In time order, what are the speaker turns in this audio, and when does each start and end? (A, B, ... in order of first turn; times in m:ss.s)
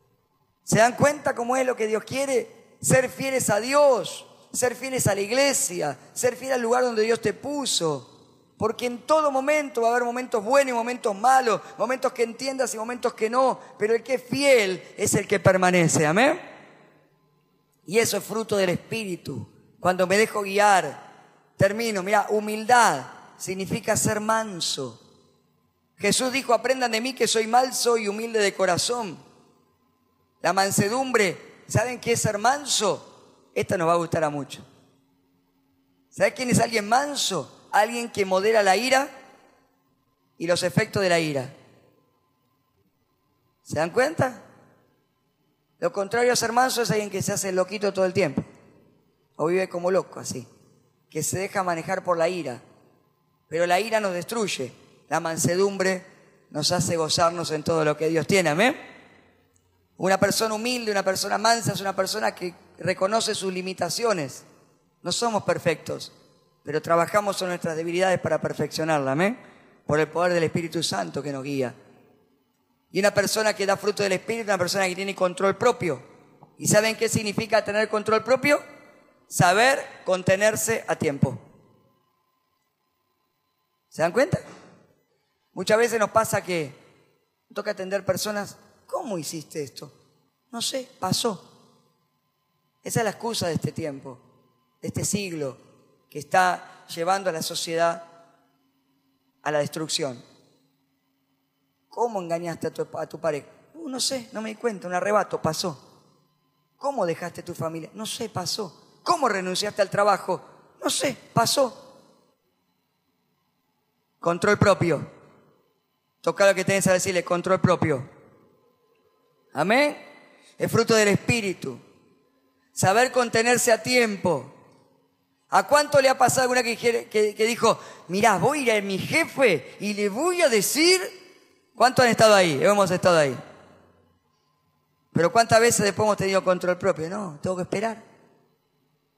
0:00.6-0:16.4 A
0:17.9-0:21.0 A
0:21.6-0:25.0 A
0:26.0-0:29.2 A
0:30.4-0:34.6 A
0:36.1-0:39.1 A
0:40.4-0:41.5 A
0:43.6-0:44.4 A
0:45.8-0:48.4 A
0:49.4-0:50.5 A
0:51.1-0:52.6 A
0:53.5-0:58.8 A
1:00.0-1:04.4 A
1:05.0-1:06.1 A
1:06.6-1:11.8 A
1:12.9-1:16.0 A
1:16.6-1:18.6 A
1:19.3-1:21.4 A
1:23.9-1:24.4 A
1:25.5-1:26.8 A
1:27.5-1:29.9 A
1:30.5-1:31.4 A
1:32.8-1:34.2 A
1:34.8-1:35.6 A
1:36.1-1:38.0 A
1:39.4-1:40.2 A
1:41.9-1:45.8 A
1:46.8-1:51.8 A
1:54.2-1:55.1 A
1:56.2-1:58.1 A
1:59.5-2:00.0 A
2:00.6-2:01.8 A
2:02.8-2:04.5 A
2:05.5-2:11.1 A
2:11.8-2:13.4 A
2:15.1-2:18.0 A